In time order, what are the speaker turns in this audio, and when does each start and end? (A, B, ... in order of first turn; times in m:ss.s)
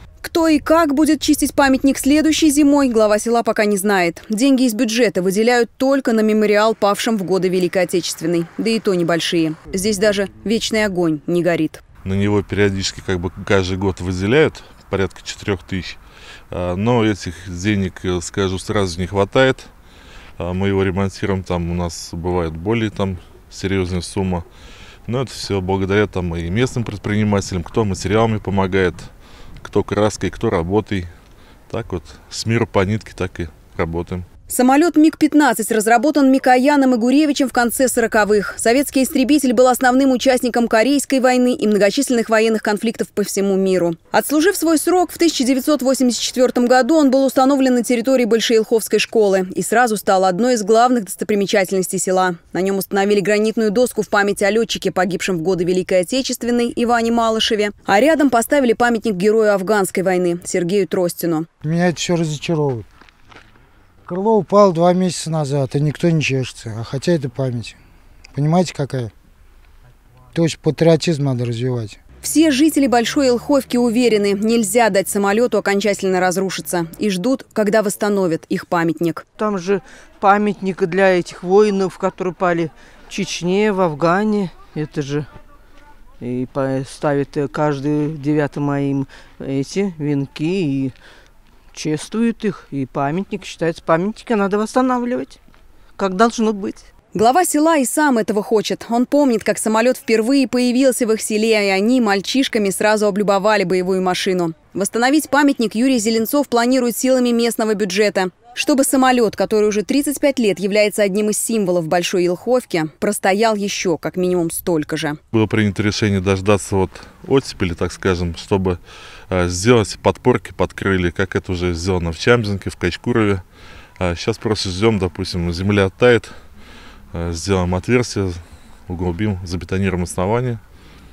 0:00.2-0:11.8 A
0:12.0-0:16.0 B
0:16.5-0:19.7 B
0:20.4-0:24.4 B
0:25.1-0:29.1 B
0:29.6-0:31.1 B
0:31.7-0:34.2 B
0:34.5-1:01.4 A
1:01.6-1:02.9 C
1:04.1-1:07.8 C
1:08.3-1:09.1 C
1:10.3-1:12.0 C
1:12.2-1:19.2 A
1:19.4-1:25.3 D
1:26.2-1:31.0 D
1:31.7-1:35.4 D
1:36.0-1:36.9 D
1:37.1-1:55.2 A
1:55.3-2:03.4 B
2:04.0-2:06.3 B
2:07.1-2:10.6 B